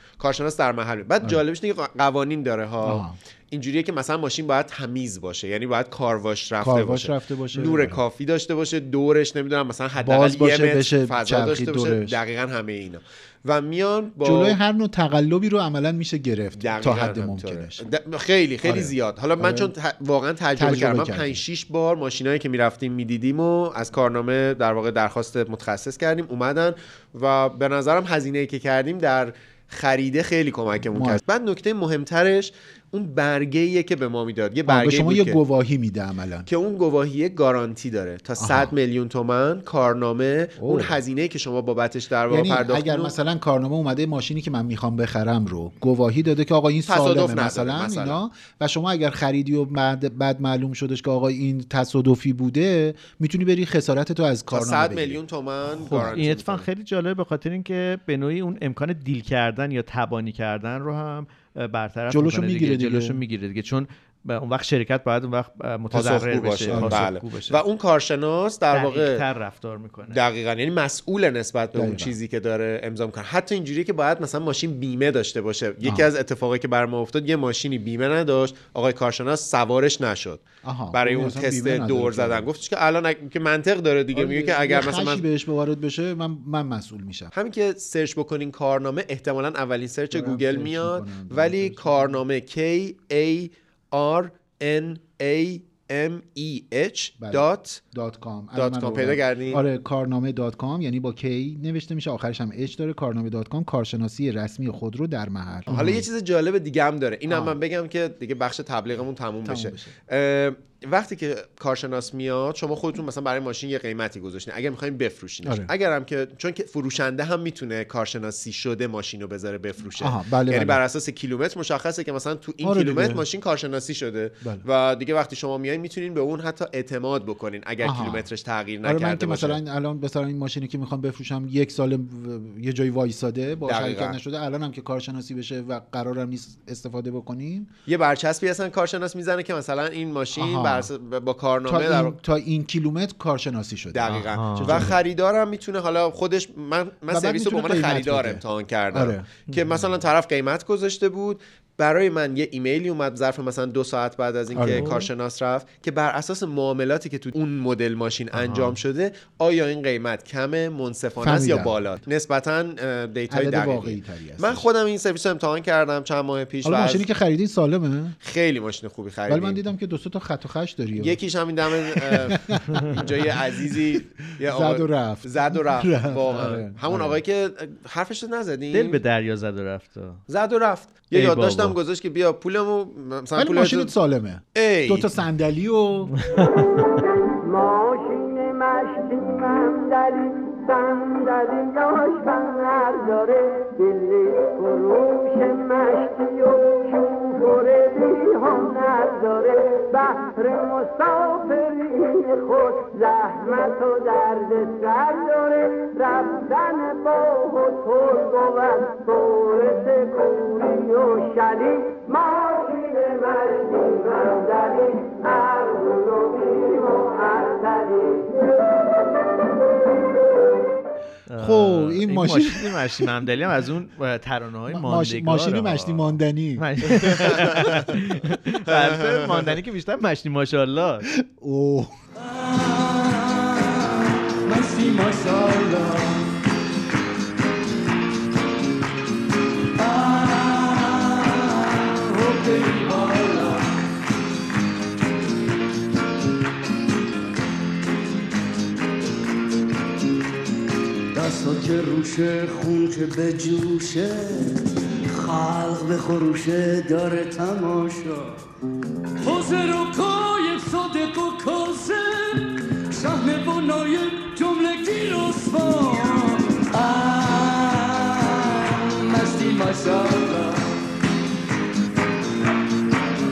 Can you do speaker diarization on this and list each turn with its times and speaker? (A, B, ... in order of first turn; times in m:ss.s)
0:00.2-0:14.6 A
0:02.8-0:03.2 B
0:06.6-0:08.0 B
0:10.0-0:12.2 B
0:14.2-0:17.8 B
0:16.6-0:35.4 A
0:18.6-0:19.7 B
0:20.6-0:21.4 B
0:30.9-0:31.2 B
0:34.7-0:36.5 B
0:36.5-0:43.2 A
0:38.4-0:38.7 B
0:40.6-0:41.0 B
0:42.3-0:55.2 B
0:46.9-0:48.2 A
0:54.5-0:56.7 A
0:55.9-1:07.6 C
1:02.1-1:03.2 B
1:05.9-1:09.2 A
1:06.7-1:07.0 B
1:08.7-1:10.2 C
1:10.1-1:25.2 A
1:11.8-1:12.1 B
1:20.6-1:22.5 B
1:24.1-1:27.3 B
1:27.3-1:37.8 A
1:30.1-1:32.2 B
1:37.2-1:46.0 B
1:38.6-1:39.6 A
1:45.7-2:09.6 A
1:47.3-1:47.6 B
1:49.4-1:49.9 B
1:55.4-1:55.7 B
2:00.0-2:00.8 B
2:02.6-2:03.2 B
2:07.8-2:08.3 B
2:08.8-2:17.7 B
2:13.7-2:14.2 A
2:17.9-2:22.2 A
2:20.4-2:20.9 B
2:21.7-2:25.0 B
2:23.9-2:47.1 A
2:24.1-2:24.9 C
2:27.1-2:29.3 B
2:34.5-2:35.0 B
2:34.7-2:35.0 C
2:38.3-2:38.8 C
2:41.2-2:41.8 B
2:43.3-2:44.7 B
2:46.6-2:48.2 B
2:48.2-2:49.6 A
2:49.3-2:51.2 B
2:51.0-2:59.0 A
2:51.8-2:52.6 B
2:54.4-2:57.2 B
2:58.7-3:00.2 C
3:00.3-3:03.9 A
3:01.1-3:01.8 C
3:03.4-3:06.1 B
3:04.6-3:05.2 A
3:06.2-3:06.9 C
3:07.3-3:38.5 D
3:41.3-3:51.1 C
3:41.4-3:43.0 B
3:44.7-3:47.4 B
3:47.2-3:47.7 A
3:48.7-3:49.6 A
3:51.2-3:51.9 B
3:52.2-3:56.4 E
3:59.8-4:03.8 E
4:11.1-4:18.4 E
4:19.2-4:30.7 E